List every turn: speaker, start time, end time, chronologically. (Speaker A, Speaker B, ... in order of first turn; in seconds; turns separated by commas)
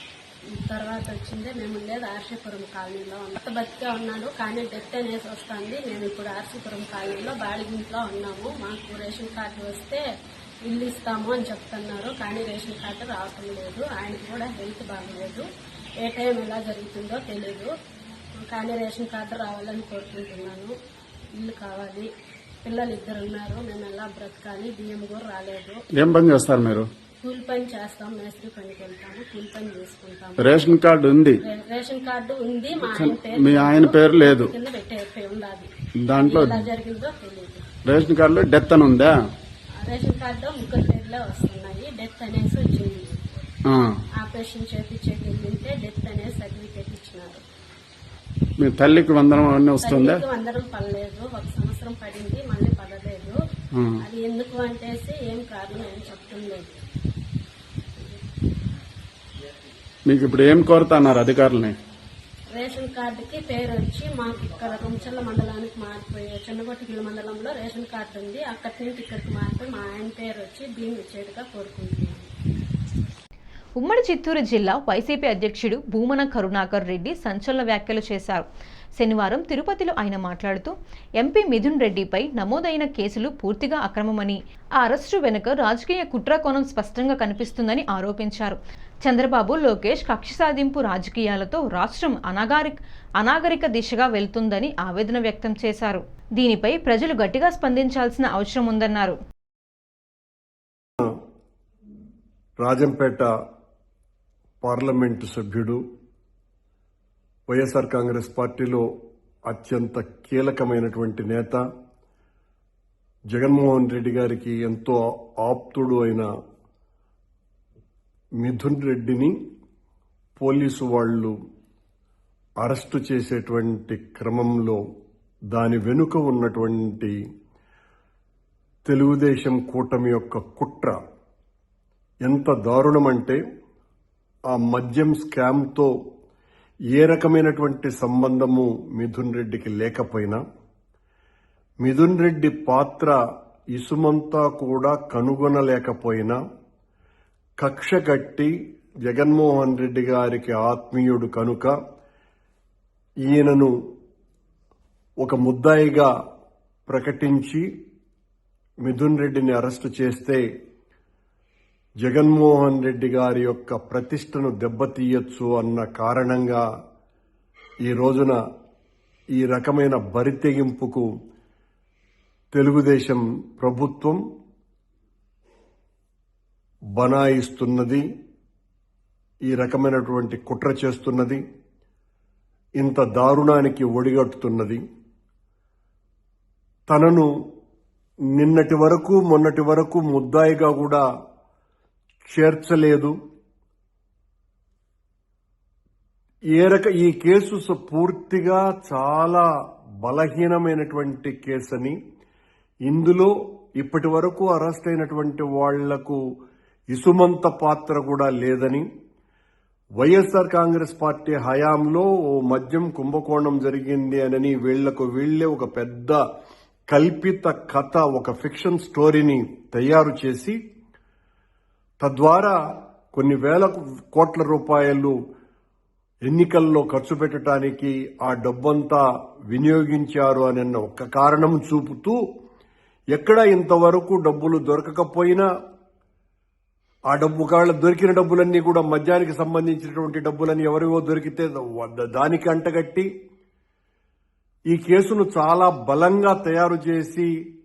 Speaker A: 0.6-10.0, Speaker A: 10.7-15.4, Speaker A: 16.0-17.7, Speaker A: 18.4-20.7, Speaker A: 21.4-22.1, Speaker A: 22.6-25.8, Speaker B: 25.9-26.8, Speaker A: 27.2-30.6, Speaker B: 30.4-31.4, Speaker A: 31.4-37.6, Speaker B: 32.8-34.5, Speaker B: 36.1-36.7, Speaker B: 37.8-39.2, Speaker A: 39.8-43.2, Speaker B: 43.7-44.0, Speaker A: 44.2-47.4, Speaker B: 48.6-50.2, Speaker A: 49.8-53.4, Speaker B: 53.8-54.0, Speaker A: 54.0-56.7, Speaker B: 60.1-61.7, Speaker A: 62.5-72.3, Speaker C: 73.8-78.5, Speaker C: 79.0-99.2, Speaker D: 102.6-103.3, Speaker D: 104.6-105.8, Speaker D: 107.5-108.8, Speaker D: 109.5-111.6, Speaker D: 113.3-116.3, Speaker D: 118.4-119.3, Speaker D: 120.4-121.3, Speaker D: 122.6-124.8, Speaker D: 125.5-127.1, Speaker D: 128.9-131.0, Speaker D: 132.2-133.4, Speaker D: 134.5-135.9, Speaker D: 136.9-140.4, Speaker D: 141.8-143.2, Speaker D: 143.7-146.4, Speaker D: 147.6-148.5, Speaker D: 149.1-151.7, Speaker D: 153.3-153.7, Speaker D: 155.2-156.1, Speaker D: 156.9-157.6, Speaker D: 158.8-160.4, Speaker D: 162.0-166.6, Speaker D: 167.8-168.4, Speaker D: 169.3-171.1, Speaker D: 172.5-174.2, Speaker D: 176.9-178.0, Speaker D: 179.5-181.4, Speaker D: 182.8-184.8, Speaker D: 186.9-187.3, Speaker D: 188.4-191.0, Speaker D: 192.3-193.1, Speaker D: 196.6-199.4, Speaker D: 200.0-201.9, Speaker D: 202.9-206.2, Speaker D: 206.9-208.8, Speaker D: 210.0-216.2, Speaker D: 216.9-220.6, Speaker D: 222.0-222.6, Speaker D: 223.1-225.1, Speaker D: 226.3-232.2, Speaker D: 233.1-235.5, Speaker D: 237.1-243.1, Speaker D: 244.7-247.3